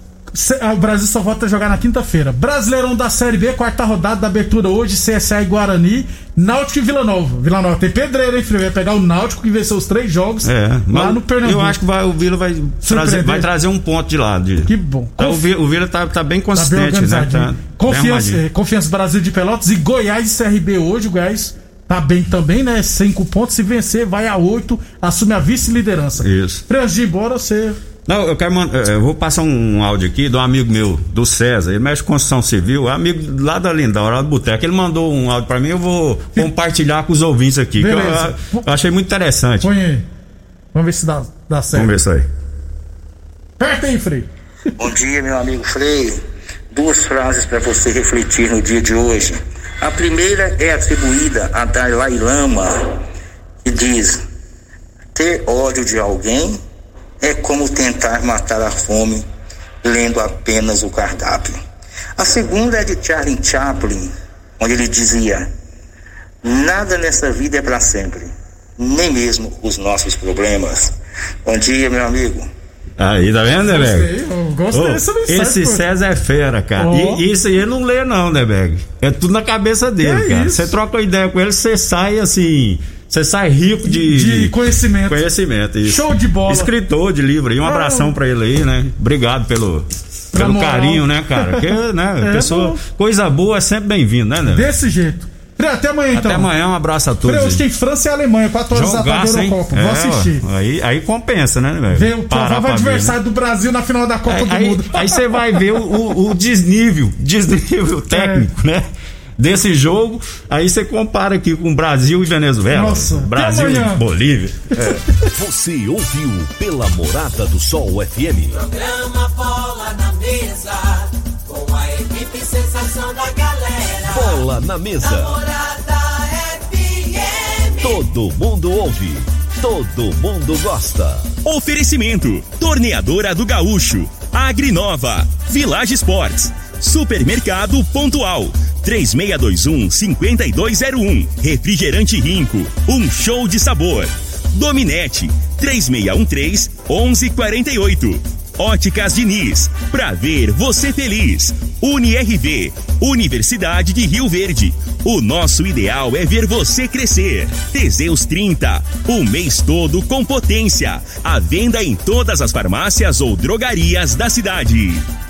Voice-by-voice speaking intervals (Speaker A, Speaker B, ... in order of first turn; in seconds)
Speaker A: 0.3-11.8, 12.8-13.5, 14.7-15.4, 16.5-27.8, 37.8-38.7, 39.6-40.0, 40.7-41.9, 43.6-44.3, 73.6-75.8, 76.8-77.2, 80.0-80.8, 83.8-85.2, 85.8-86.7, 87.6-88.1, 90.3-92.8, 94.5-96.5, 97.2-100.4, 101.9-105.3, 108.1-108.5, 112.7-114.0
Speaker B: 10.4-18.4, 26.2-26.6, 28.1-39.7, 41.7-42.3, 73.0-74.1, 74.7-84.5, 85.1-94.7, 96.1-97.7, 98.7-103.2, 104.3-108.8, 109.4-114.7
Speaker C: 44.8-46.2, 46.7-53.0, 53.6-54.2, 55.1-56.6, 57.2-59.2, 59.8-61.6, 62.2-65.5, 66.4-72.5
Speaker D: 114.8-118.6, 124.1-125.4, 127.8-131.3
Speaker E: 118.6-124.4, 125.0-128.0
Speaker F: 131.4-165.1